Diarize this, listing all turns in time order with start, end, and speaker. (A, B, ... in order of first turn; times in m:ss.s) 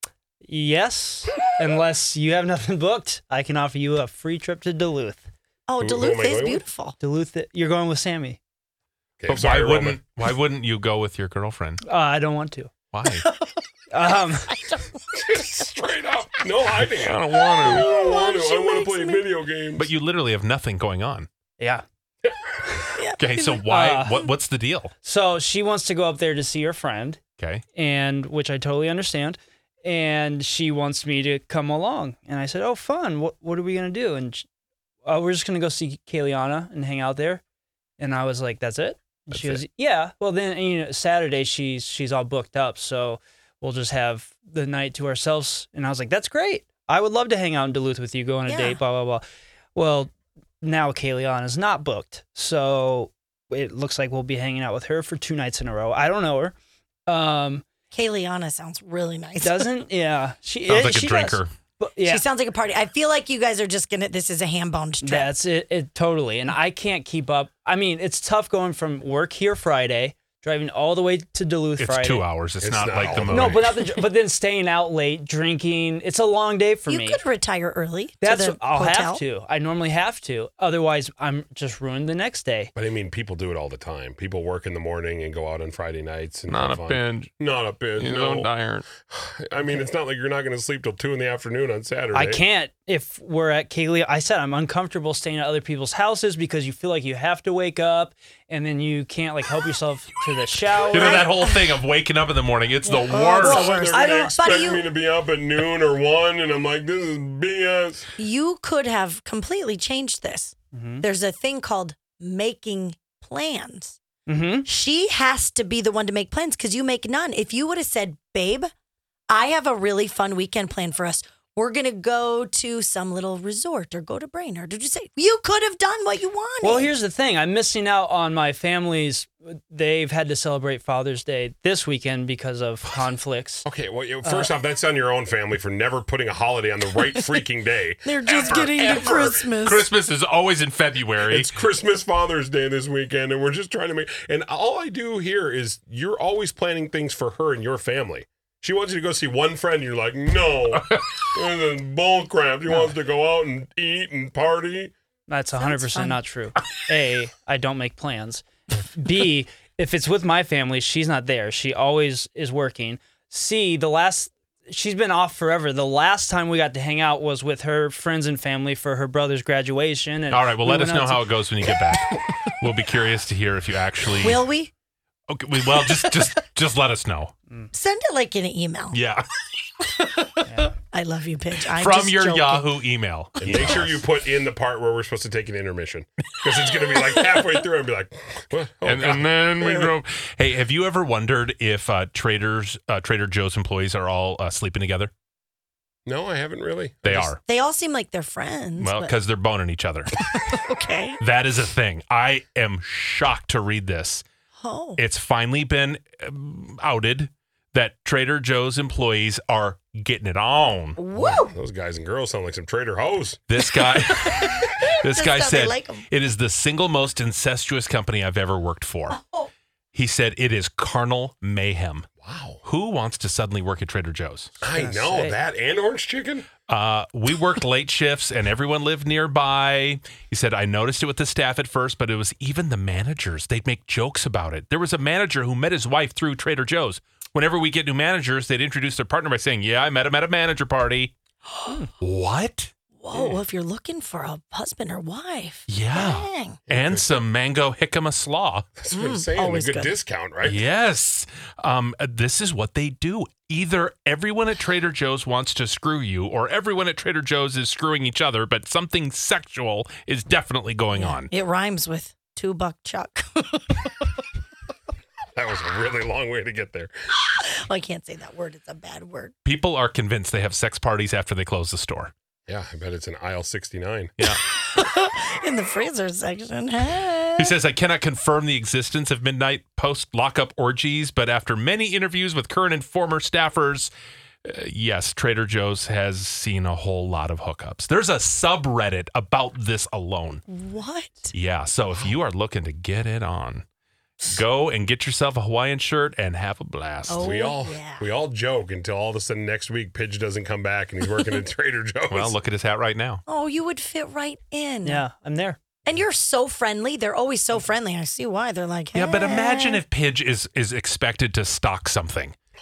0:00.4-0:05.2 A
0:05.7-0:07.0 B
0:05.8-0:06.6 C
0:07.0-0:08.4 A
0:09.2-0:10.0 C
0:09.3-0:11.8 D
0:11.8-0:12.7 A
0:12.9-0:13.3 D
0:13.2-0:13.6 B
0:13.9-0:14.6 A
0:14.5-0:15.5 B
0:15.1-0:19.9 C
0:16.8-0:17.9 D
0:17.3-0:19.3 B
0:19.8-0:21.3 D
0:21.6-0:21.8 A
0:22.2-0:22.9 C
0:23.0-0:23.6 B
0:23.2-0:24.9 D
0:23.6-0:24.3 A
0:25.0-0:27.2 A
0:27.4-0:27.6 D
0:27.7-0:34.4 A
0:35.0-0:37.4 A
0:38.0-0:49.2 A
0:39.3-0:39.6 D
0:48.5-0:48.8 B
0:49.7-0:50.1 A
0:50.6-0:56.5 A
0:57.1-0:57.6 A
0:57.9-0:59.7 B
0:59.4-1:02.2 A
1:00.7-1:01.5 D
1:02.0-1:05.3 B
1:05.0-1:12.2 A
1:11.8-1:13.7 D
1:12.6-1:13.9 C
1:13.2-1:17.2 A
1:16.9-1:19.2 B
1:18.2-1:22.7 A
1:22.7-1:32.4 C
1:26.5-1:27.3 D
1:28.0-1:28.8 D
1:32.1-1:41.3 A
1:40.9-1:41.6 B
1:40.9-1:43.8 D
1:42.8-1:44.9 B
1:43.1-1:48.1 C
1:43.4-1:44.7 A
1:48.2-1:54.0 B
1:50.7-1:51.0 A
1:54.3-1:54.7 A
1:54.6-1:58.7 B
1:59.3-2:06.9 B
2:06.6-2:13.6 A
2:13.6-2:19.5 C
2:14.2-2:14.5 A
2:18.0-2:19.9 B
2:18.4-2:21.6 D
2:21.2-2:34.9 C
2:30.7-2:31.0 D
2:35.3-2:51.3 A
2:35.6-2:36.1 B
2:50.3-2:54.4 D
2:54.2-2:54.7 B
2:55.3-2:57.3 D
2:57.7-2:59.0 B
2:58.9-2:59.3 D
2:59.8-3:00.3 D
3:00.4-3:00.8 A
3:00.9-3:02.7 B
3:01.7-3:04.0 D
3:03.4-3:10.0 C
3:08.8-3:15.1 D
3:16.0-3:17.3 C
3:17.0-3:17.4 D
3:17.4-3:19.1 B
3:18.8-3:20.4 D
3:20.3-3:21.2 B
3:21.2-3:24.2 D
3:24.6-3:25.0 B
3:25.0-3:31.0 D
3:31.0-3:31.6 B
3:31.2-3:33.4 C
3:33.5-3:39.2 D
3:33.7-3:36.0 B
3:39.1-3:39.5 B
3:39.9-3:42.1 D
3:42.2-3:42.6 C
3:42.6-3:44.5 D
3:44.6-3:46.5 C
3:44.7-3:45.4 A
3:46.7-4:01.1 D
4:02.0-4:02.7 D
4:03.0-4:06.6 B
4:03.1-4:03.4 C
4:05.7-4:08.7 D
4:06.7-4:07.1 C
4:08.8-4:10.6 C
4:08.9-4:09.9 B
4:10.4-4:21.3 D
4:20.9-4:23.8 B
4:25.3-4:26.9 C
4:27.4-4:29.3 B
4:29.4-4:32.1 D
4:32.5-4:34.1 C
4:34.6-4:37.5 B
4:37.4-4:43.9 D
4:44.4-4:50.4 D
4:50.5-4:51.3 B
4:51.3-4:53.6 D
4:54.2-4:57.4 D
4:57.1-4:58.0 B
4:57.2-5:02.3 C
5:02.1-5:03.2 D
5:03.3-5:05.0 B
5:04.8-5:05.6 A
5:05.8-5:09.8 B
5:08.9-5:12.4 D